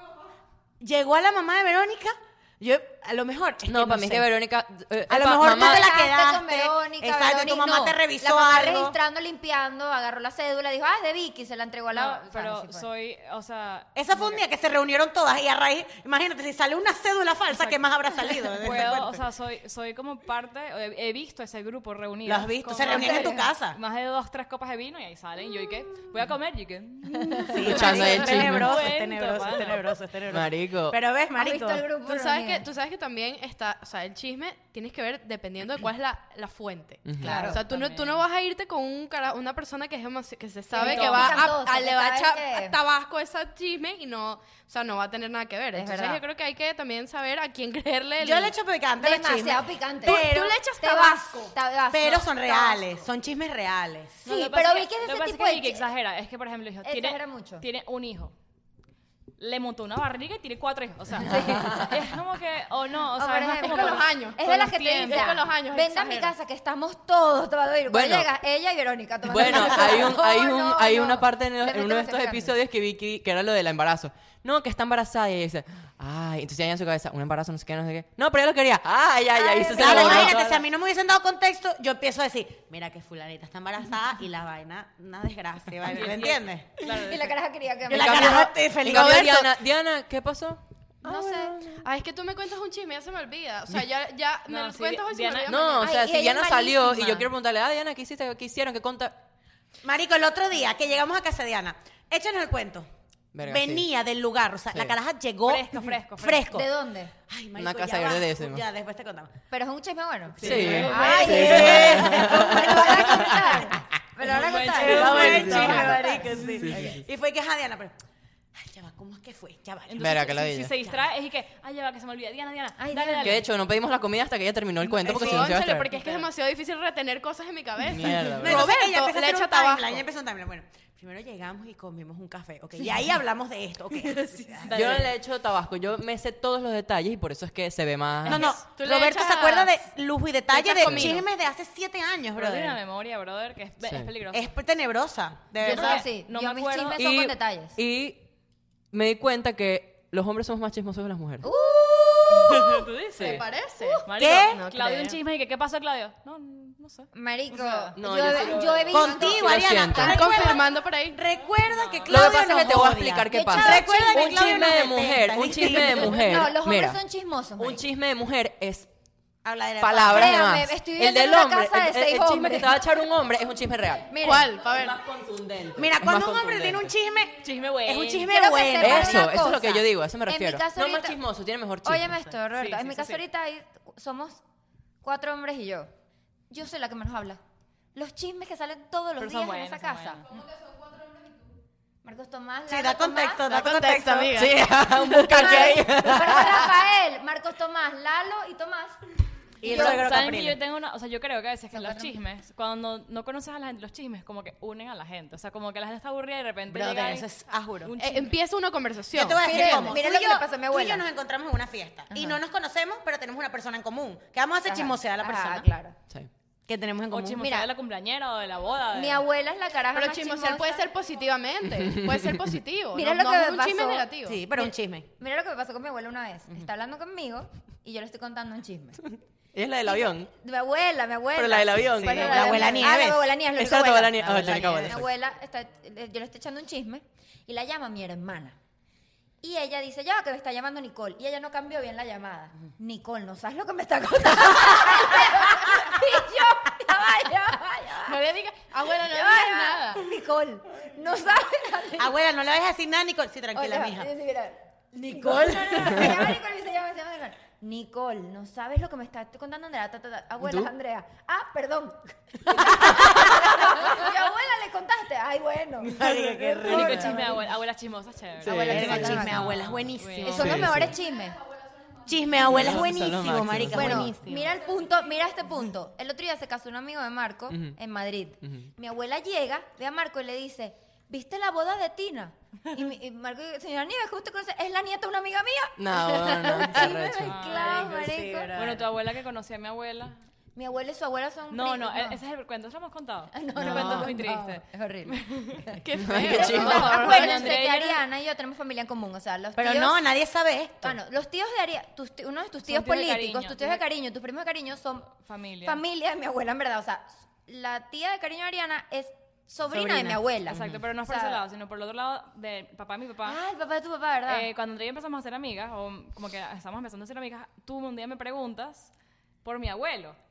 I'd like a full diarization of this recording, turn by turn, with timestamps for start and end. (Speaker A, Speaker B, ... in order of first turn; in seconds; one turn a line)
Speaker A: 0.8-4.3
Speaker B: 3.7-5.9
Speaker A: 5.1-8.9
Speaker C: 5.5-12.9
Speaker D: 11.9-14.4
Speaker A: 13.9-19.2
Speaker D: 17.5-17.8
Speaker D: 18.6-29.9
Speaker A: 22.2-23.8
Speaker C: 22.8-23.5
Speaker A: 27.4-31.9
Speaker B: 27.6-28.8
Speaker B: 30.3-30.9
Speaker C: 31.4-32.6
Speaker E: 31.9-48.5
Speaker B: 37.0-37.4
Speaker A: 37.2-37.6
Speaker C: 37.2-37.6
Speaker D: 37.6-38.2
Speaker C: 40.7-42.8
Speaker D: 40.8-41.5
Speaker C: 45.7-46.2
Speaker A: 48.2-50.6
Speaker C: 49.0-53.0
Speaker E: 50.0-51.5
Speaker A: 51.9-54.2
Speaker C: 54.2-55.8
Speaker D: 54.2-58.3
Speaker C: 56.8-57.6
Speaker D: 59.4-65.3
Speaker C: 61.2-61.9
Speaker B: 61.3-61.9
Speaker C: 63.1-72.5
Speaker E: 63.5-66.3
Speaker B: 67.9-68.3
Speaker B: 69.2-80.6
Speaker C: 79.3-80.4
Speaker A: 79.7-86.7
Speaker D: 85.8-87.4
Speaker C: 86.9-88.5
Speaker A: 87.9-89.4
Speaker B: 87.9-91.8
Speaker E: 88.7-89.5
Speaker C: 91.0-91.5
Speaker E: 91.8-95.9
Speaker D: 94.5-95.6
Speaker B: 95.5-99.2
Speaker C: 95.8-97.3
Speaker A: 99.8-102.9
Speaker B: 103.3-103.8
Speaker A: 103.4-106.7
Speaker D: 105.4-106.6
Speaker C: 106.5-107.1
Speaker A: 107.3-109.3
Speaker B: 107.6-108.6
Speaker C: 109.5-116.3
Speaker D: 110.4-111.7
Speaker A: 110.4-113.3
Speaker B: 110.4-113.6
Speaker D: 114.3-116.1
Speaker A: 114.6-117.9
Speaker B: 114.9-117.0
Speaker A: 118.5-120.3
Speaker D: 119.9-123.4
Speaker B: 120.0-120.7
Speaker C: 122.8-123.4
Speaker B: 123.2-125.9
Speaker E: 124.8-130.0
Speaker A: 125.1-125.5
Speaker D: 125.9-126.3
Speaker B: 127.9-128.7
Speaker A: 128.4-135.0
Speaker D: 134.4-135.1
Speaker B: 134.7-138.5
Speaker A: 138.3-142.8
Speaker E: 138.3-139.8
Speaker E: 140.5-141.2
Speaker B: 140.8-141.2
Speaker D: 142.3-144.6
Speaker B: 143.8-144.1
Speaker A: 144.3-146.0
Speaker D: 145.6-147.1
Speaker C: 145.6-147.8
Speaker B: 146.9-148.3
Speaker B: 148.9-151.5
Speaker C: 151.4-152.8
Speaker D: 152.3-153.4
Speaker B: 153.2-153.4
Speaker E: 153.2-155.2
Speaker C: 153.8-154.0
Speaker D: 154.0-157.9
Speaker A: 154.1-154.6
Speaker C: 157.1-160.1
Speaker B: 157.9-160.3
Speaker E: 158.3-161.2
Speaker A: 158.9-166.2
Speaker D: 161.6-162.3
Speaker B: 162.1-167.0
Speaker C: 163.3-164.9
Speaker C: 165.6-167.8
Speaker B: 167.6-168.9
Speaker A: 169.4-170.4
Speaker B: 169.8-176.9
Speaker C: 170.1-172.9
Speaker C: 174.1-174.5
Speaker E: 174.1-175.0
Speaker A: 175.8-179.3
Speaker D: 177.4-178.4
Speaker C: 178.3-181.2
Speaker B: 178.8-182.2
Speaker C: 181.8-184.4
Speaker D: 182.5-183.2
Speaker C: 185.0-185.9
Speaker C: 186.5-187.4
Speaker C: 187.9-190.2
Speaker D: 189.2-190.3
Speaker C: 192.0-193.4
Speaker A: 192.7-194.5
Speaker E: 193.5-194.7
Speaker B: 194.3-196.7
Speaker C: 195.2-199.0
Speaker A: 199.6-200.6
Speaker C: 199.6-200.1
Speaker D: 199.6-207.3
Speaker C: 201.7-202.2
Speaker A: 206.7-207.9
Speaker D: 207.8-208.3
Speaker E: 207.9-210.0
Speaker A: 209.1-215.7
Speaker C: 209.4-211.0
Speaker C: 212.1-212.4
Speaker C: 214.6-215.9
Speaker A: 216.7-217.4
Speaker D: 217.1-219.2
Speaker C: 217.4-217.7
Speaker C: 218.9-220.9
Speaker E: 219.9-224.4
Speaker C: 222.9-229.0
Speaker A: 224.2-225.1
Speaker B: 229.1-230.3
Speaker C: 229.8-238.6
Speaker B: 231.3-232.9
Speaker A: 232.1-233.2
Speaker B: 233.5-235.1
Speaker A: 234.4-234.9
Speaker C: 239.4-248.2
Speaker E: 248.0-250.0
Speaker C: 249.0-252.2
Speaker A: 252.0-254.1
Speaker C: 253.5-266.0
Speaker A: 255.1-256.4
Speaker B: 260.4-260.7
Speaker A: 265.8-267.4
Speaker D: 266.6-270.7
Speaker C: 266.6-267.4
Speaker C: 268.4-269.5
Speaker B: 268.4-269.8
Speaker A: 268.7-270.9
Speaker C: 270.2-271.4
Speaker B: 270.3-270.9
Speaker A: 272.0-274.6
Speaker B: 272.4-274.1
Speaker C: 273.7-288.5
Speaker B: 277.5-277.8
Speaker B: 278.4-278.7
Speaker B: 285.8-287.6
Speaker D: 287.1-287.9
Speaker A: 287.7-288.9
Speaker D: 288.5-290.2
Speaker C: 290.5-292.2
Speaker D: 291.5-295.6
Speaker C: 293.3-300.0
Speaker E: 295.8-297.5
Speaker B: 296.0-297.1
Speaker D: 296.3-298.0
Speaker A: 299.6-301.0
Speaker C: 300.8-305.1
Speaker D: 302.6-303.9
Speaker D: 305.2-305.8
Speaker C: 305.6-311.4
Speaker A: 309.7-310.8
Speaker D: 310.4-313.4
Speaker C: 313.2-314.5
Speaker D: 314.2-318.9
Speaker D: 319.4-320.2